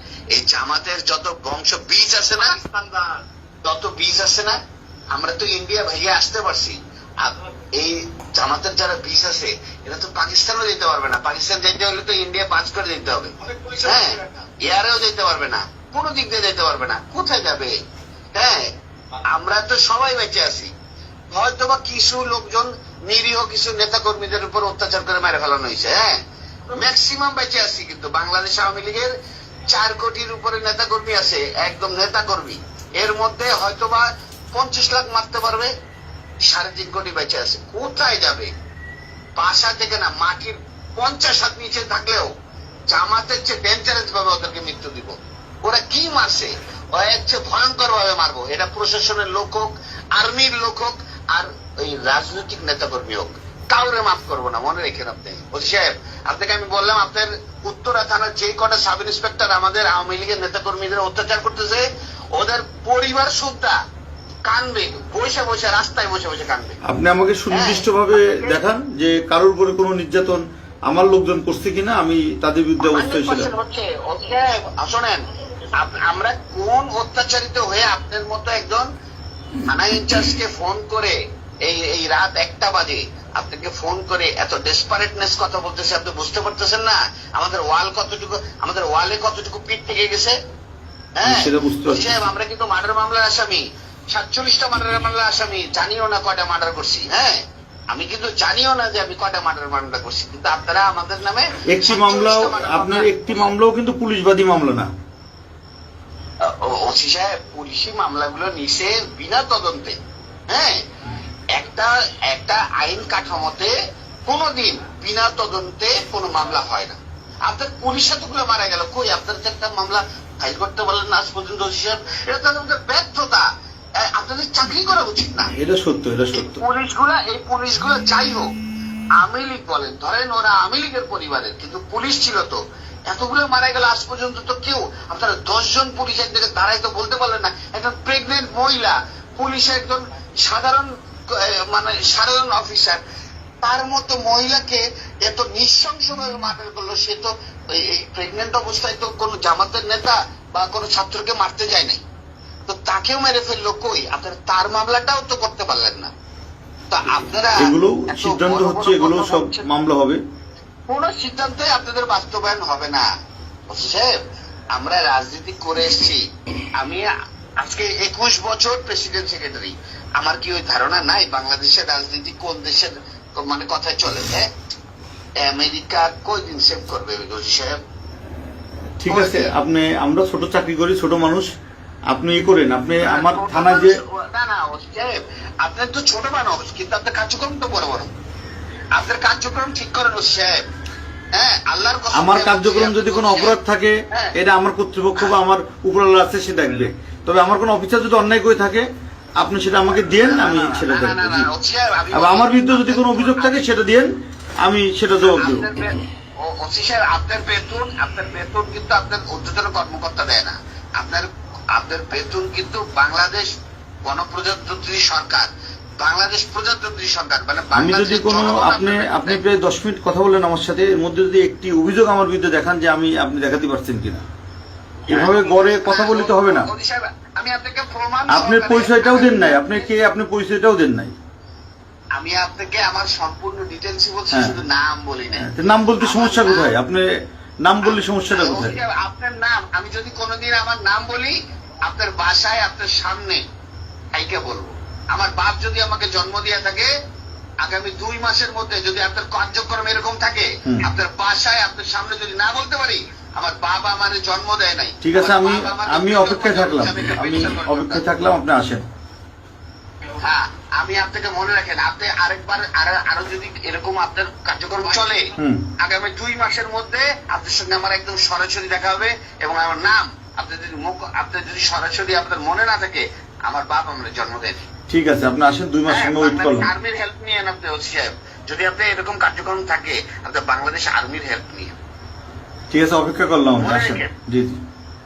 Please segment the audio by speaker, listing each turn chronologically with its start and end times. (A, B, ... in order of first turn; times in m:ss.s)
0:00.3-0:03.0 A
0:03.7-0:04.6 A
0:05.1-0:17.8 A
0:18.4-0:18.7 A
0:19.2-0:20.7 A
0:21.3-0:26.2 A
0:26.7-0:29.1 A
0:29.7-0:35.7 A
0:36.5-0:38.5 A
0:39.4-0:42.3 A
0:42.9-1:03.8 A
1:04.5-1:06.8 A
1:06.8-1:13.5 B
1:07.5-1:08.6 A
1:12.8-1:15.2 A
1:15.8-1:18.9 A
1:19.7-1:30.4 A
1:31.2-1:43.5 A
1:31.2-1:32.2 B
1:41.7-1:44.9 B
1:46.4-1:50.0 A
1:50.5-1:50.8 A
1:51.5-1:53.7 A
1:54.3-2:03.5 A
2:04.0-2:05.5 A
2:05.6-2:06.6 B
2:06.4-2:08.5 A
2:09.2-2:23.0 A
2:23.6-2:32.0 A
2:32.7-2:36.1 A
2:36.9-2:39.7 A
2:37.1-2:40.2 B
2:40.9-2:43.1 A
2:43.7-2:44.2 A
2:44.7-2:46.2 A
2:46.8-2:54.5 A
2:55.4-2:57.8 A
2:59.0-3:01.5 B
2:59.1-2:59.5 A
3:02.1-3:04.0 B
3:03.0-3:08.1 A
3:09.0-3:10.6 A
3:11.3-3:13.6 A
3:12.1-3:18.9 B
3:14.1-3:14.4 A
3:19.4-3:21.5 B
3:20.2-3:23.7 A
3:22.1-3:24.1 B
3:24.6-3:25.7 B
3:25.2-3:33.5 A
3:34.1-3:35.5 A
3:36.0-3:39.4 A
3:37.8-3:44.2 B
3:45.1-3:46.7 B
3:45.1-3:49.9 A
3:48.3-3:51.1 B
3:52.2-3:55.5 A
3:55.4-3:57.1 B
3:56.0-3:56.7 A
3:57.6-3:58.8 B
3:57.8-4:03.4 A
4:04.1-4:06.9 A
4:07.6-4:18.1 A
4:15.0-4:18.8 B
4:20.2-4:34.7 A
4:25.4-4:25.7 B
4:34.9-4:36.7 B
4:35.9-4:41.7 A
4:42.7-4:44.6 B
4:43.6-4:44.1 A